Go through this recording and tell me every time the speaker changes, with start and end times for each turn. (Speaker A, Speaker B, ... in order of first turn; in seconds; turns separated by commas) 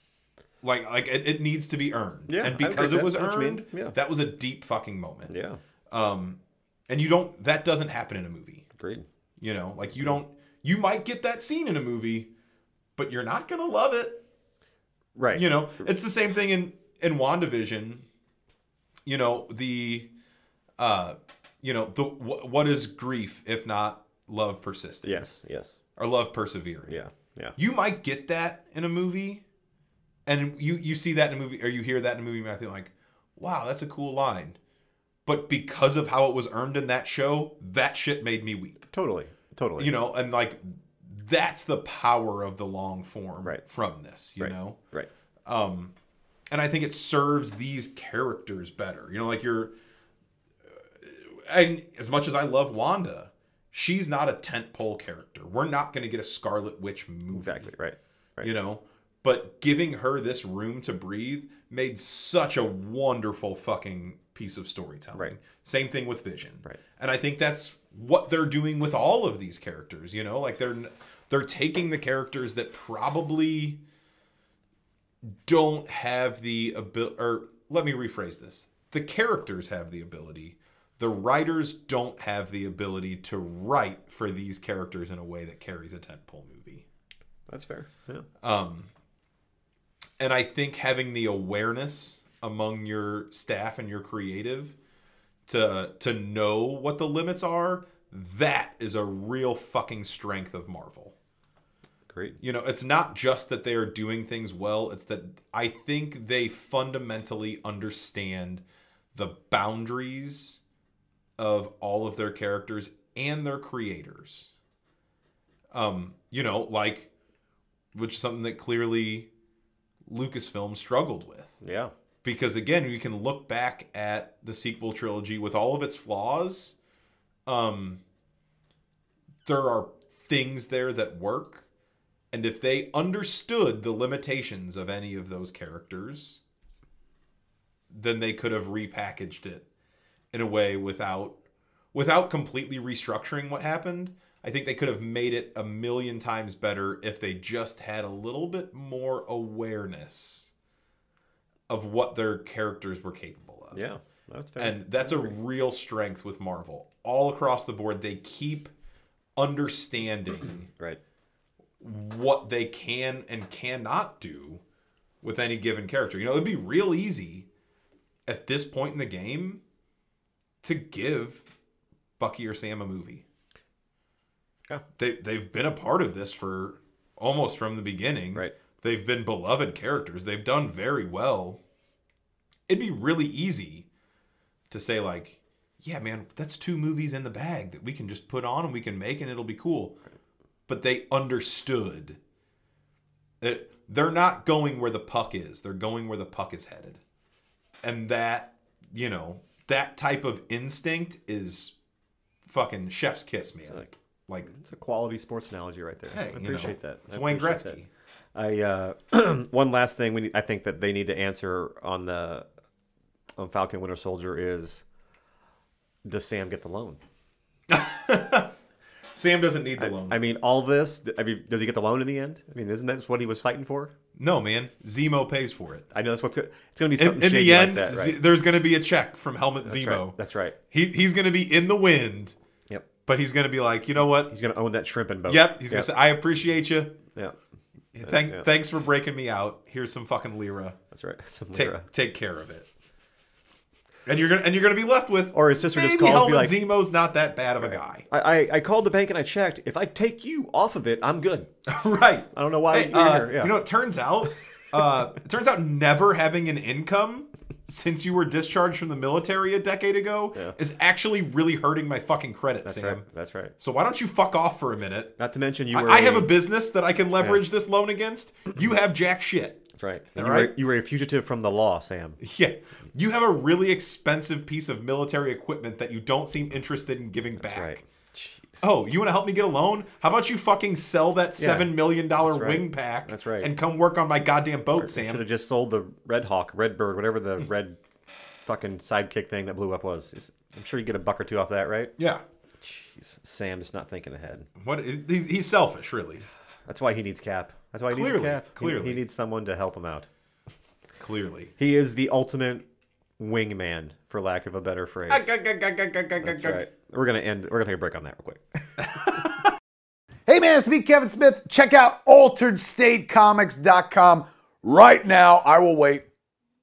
Speaker A: 0.6-5.3, Speaker B: 2.3-4.0, Speaker B: 5.3-5.6, Speaker A: 5.9-8.7, Speaker B: 8.8-9.1, Speaker A: 9.4-12.3, Speaker A: 12.9-14.2, Speaker B: 15.2-15.5, Speaker A: 15.3-18.1, Speaker A: 19.1-20.1, Speaker A: 20.8-25.3, Speaker B: 25.0-25.8, Speaker A: 26.0-26.9, Speaker B: 26.9-27.6, Speaker A: 27.6-29.4, Speaker A: 30.2-34.6, Speaker A: 35.2-38.8, Speaker B: 38.9-39.9, Speaker A: 39.8-44.8, Speaker B: 44.4-45.1, Speaker A: 45.5-45.9, Speaker A: 46.5-49.7, Speaker A: 50.7-57.7, Speaker B: 57.3-58.5, Speaker A: 58.4-73.8, Speaker A: 75.4-86.8, Speaker B: 87.5-88.2, Speaker A: 88.4-88.9, Speaker A: 90.2-94.7, Speaker A: 95.5-101.1, Speaker B: 102.1-102.4, Speaker A: 102.4-110.6, Speaker A: 111.4-114.5, Speaker A: 115.7-117.1, Speaker A: 117.9-119.3, Speaker A: 120.0-121.6, Speaker B: 121.6-121.9, Speaker A: 122.2-126.8, Speaker A: 127.5-128.0, Speaker A: 129.4-131.6, Speaker A: 132.3-136.4, Speaker A: 137.9-139.6, Speaker A: 140.3-141.4, Speaker A: 141.9-150.5, Speaker A: 151.7-153.8, Speaker B: 153.7-155.3, Speaker A: 154.6-158.7, Speaker A: 159.3-160.7, Speaker A: 161.8-164.6, Speaker A: 165.2-167.5, Speaker A: 168.3-169.6, Speaker A: 170.6-171.4, Speaker A: 172.2-173.2, Speaker A: 175.0-181.6, Speaker A: 182.7-183.9, Speaker A: 184.7-190.0, Speaker A: 190.7-192.2, Speaker A: 193.4-197.0, Speaker A: 197.8-201.7, Speaker A: 202.4-204.5, Speaker B: 204.4-207.8, Speaker A: 206.1-207.9, Speaker B: 208.3-212.4, Speaker B: 213.4-214.8, Speaker B: 216.0-217.0, Speaker A: 217.7-218.5, Speaker A: 219.1-220.2, Speaker B: 219.8-223.9, Speaker A: 224.2-225.9, Speaker B: 225.9-228.2, Speaker A: 226.9-230.2, Speaker B: 229.6-230.6, Speaker A: 230.7-232.3, Speaker A: 233.1-234.3, Speaker B: 234.3-235.9, Speaker A: 235.3-237.0, Speaker A: 237.9-240.8, Speaker B: 240.9-241.9, Speaker A: 241.5-242.7, Speaker A: 244.1-248.0, Speaker B: 245.3-246.6, Speaker B: 247.6-251.5, Speaker A: 251.7-263.0, Speaker B: 252.3-253.5, Speaker B: 262.6-263.5, Speaker A: 263.6-265.1, Speaker B: 265.2-266.3, Speaker A: 265.7-270.5, Speaker B: 269.8-272.2, Speaker A: 272.2-277.8, Speaker B: 277.4-278.6, Speaker A: 278.6-285.2, Speaker B: 281.4-283.5, Speaker B: 284.8-287.8, Speaker B: 288.4-291.9, Speaker A: 292.0-292.2, Speaker B: 292.6-294.5, Speaker A: 294.6-296.2, Speaker B: 296.7-300.1, Speaker A: 297.9-299.0, Speaker A: 301.0-301.5, Speaker B: 301.6-302.6, Speaker B: 303.2-305.3, Speaker A: 305.1-306.6, Speaker B: 306.2-309.4, Speaker A: 308.9-309.4, Speaker C: 310.3-316.1